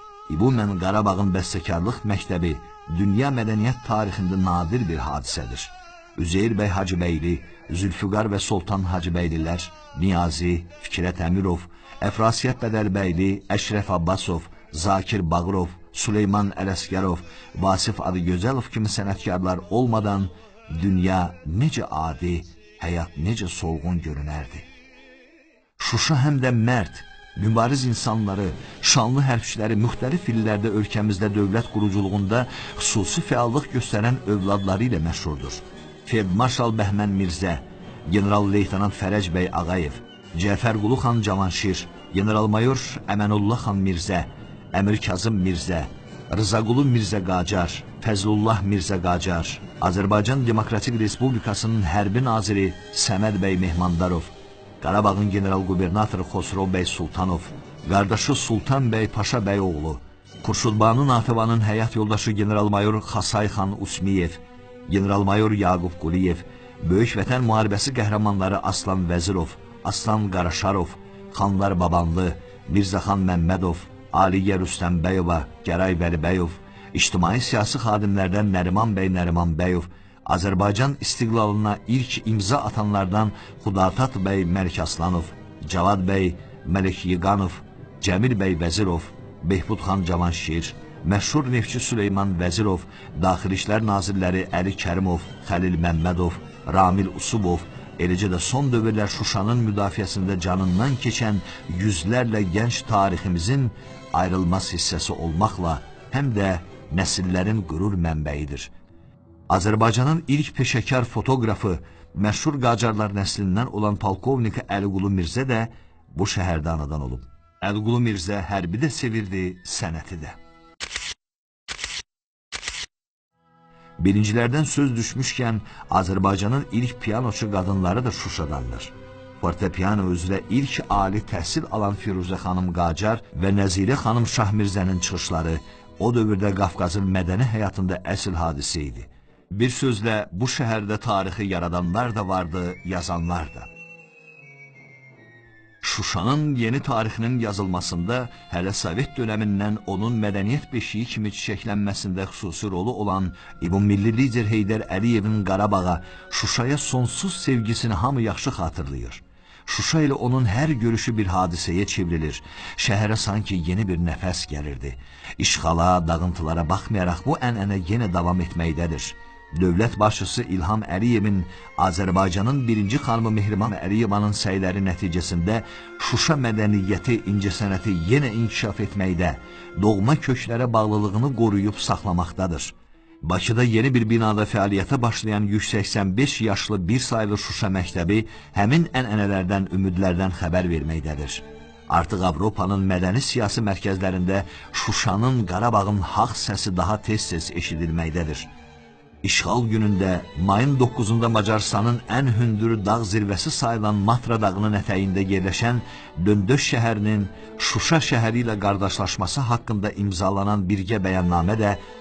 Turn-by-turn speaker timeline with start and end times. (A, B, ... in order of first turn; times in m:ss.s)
0:00.3-0:24.7 A
0:25.8-1:48.7 A
1:49.5-2:00.4 A
2:04.0-2:23.7 A
2:25.8-3:18.5 A
3:19.2-3:31.8 A